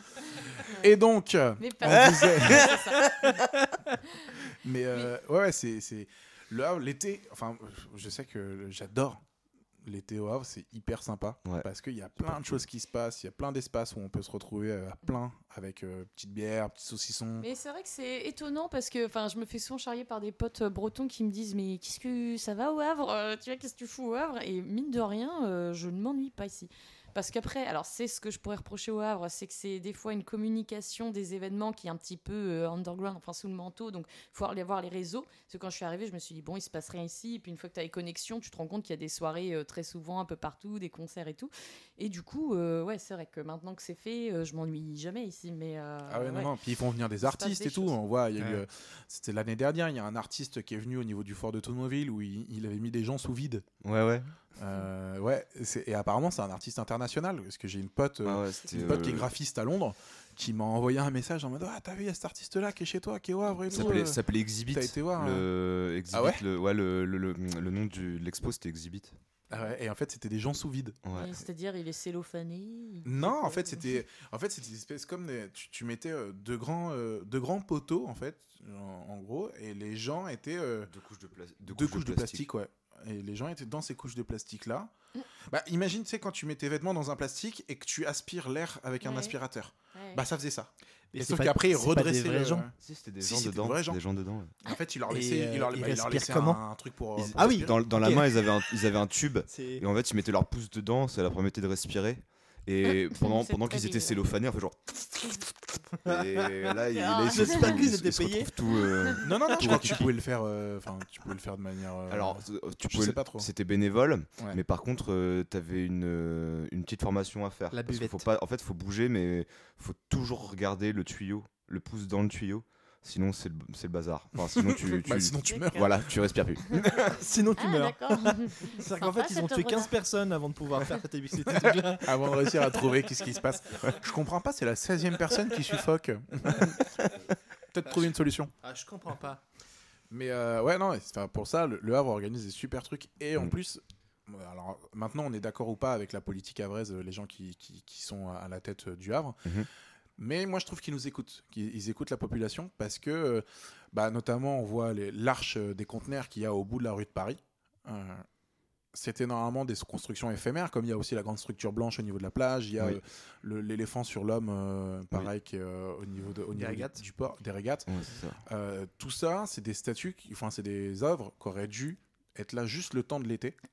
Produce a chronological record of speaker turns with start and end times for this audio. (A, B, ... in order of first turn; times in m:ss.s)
0:00.1-0:00.9 A
0:00.7-0:02.8 B
0:01.6-0:03.3 A
0:02.4-0:03.4 C
0:04.5-0:09.2 B
0:09.8-0:17.4 B
0:17.4-0:46.5 A
0:46.1-0:53.7 B
0:47.2-0:48.0 A
0:48.4-0:48.6 D
0:53.8-0:54.3 C
0:54.6-1:05.5 B
0:58.2-0:59.3 C
1:03.7-1:09.1 C
1:06.1-1:06.4 B
1:09.5-1:11.0 B
1:11.0-1:11.3 C
1:11.1-1:13.9 A
1:13.0-1:20.9 B
1:20.9-1:22.5 C
1:21.7-1:24.9 B
1:25.5-1:34.0 B
1:29.0-1:29.3 A
1:29.9-1:30.2 A
1:31.1-1:32.6 D
1:32.8-1:34.5 C
1:34.6-1:37.8 B
1:35.1-1:36.6 D
1:37.2-1:38.6 D
1:37.2-1:45.5 C
1:39.5-1:39.8 D
1:43.2-1:44.2 A
1:46.0-1:46.7 D
1:46.0-1:50.1 C
1:46.9-1:47.7 A
1:47.3-1:48.5 D
1:49.0-1:49.2 A
1:49.2-1:53.5 B
1:49.7-1:50.0 D
1:52.1-2:07.2 C
1:57.7-1:58.2 D
2:04.5-2:06.1 B
2:05.4-2:05.9 A
2:07.1-2:12.9 D
2:07.6-2:09.9 A
2:11.7-2:17.2 B
2:17.7-2:18.5 B
2:17.8-2:18.1 D
2:18.6-2:19.4 D
2:20.1-2:29.5 B
2:30.2-2:38.2 B
2:38.9-2:47.9 B
2:46.5-2:47.0 D
2:47.9-2:48.4 C
2:48.4-2:53.6 B